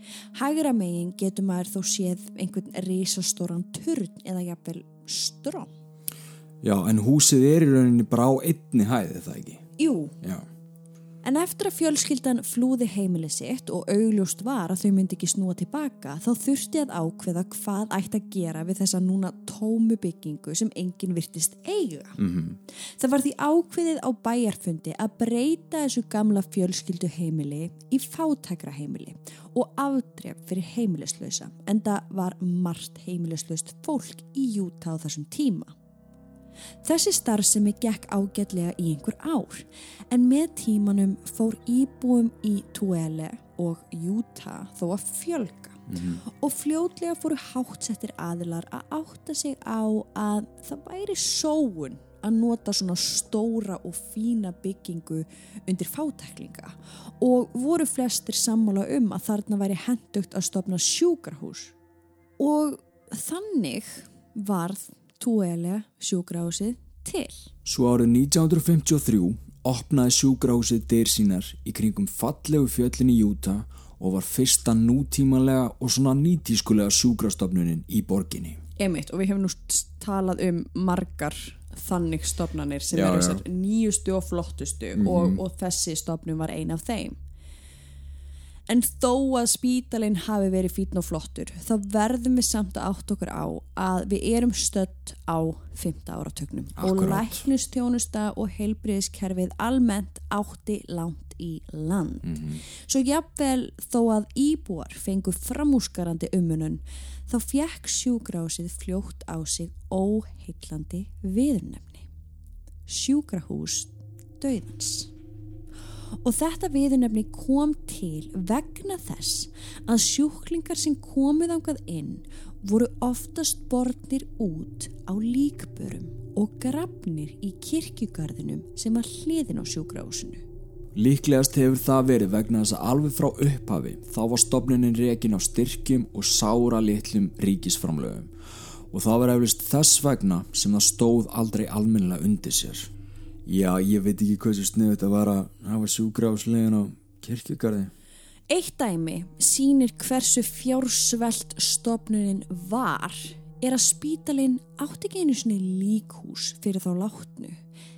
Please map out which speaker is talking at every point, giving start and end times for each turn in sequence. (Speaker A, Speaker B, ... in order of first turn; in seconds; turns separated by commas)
Speaker A: 0.3-5.7, Speaker B: 6.6-9.6, Speaker A: 9.8-10.2, Speaker B: 10.2-10.5, Speaker A: 11.2-22.2, Speaker B: 22.2-22.6, Speaker A: 22.7-35.7, Speaker A: 36.8-61.8, Speaker B: 45.9-46.2, Speaker A: 62.4-67.5, Speaker B: 67.7-78.6, Speaker A: 78.8-87.2, Speaker B: 82.9-83.4, Speaker B: 85.0-85.4, Speaker A: 88.7-112.1, Speaker B: 96.8-97.4, Speaker B: 102.2-102.6, Speaker A: 112.9-115.1, Speaker A: 116.2-130.4, Speaker B: 130.9-138.3, Speaker B: 138.9-142.9, Speaker B: 143.4-147.9, Speaker A: 148.5-157.6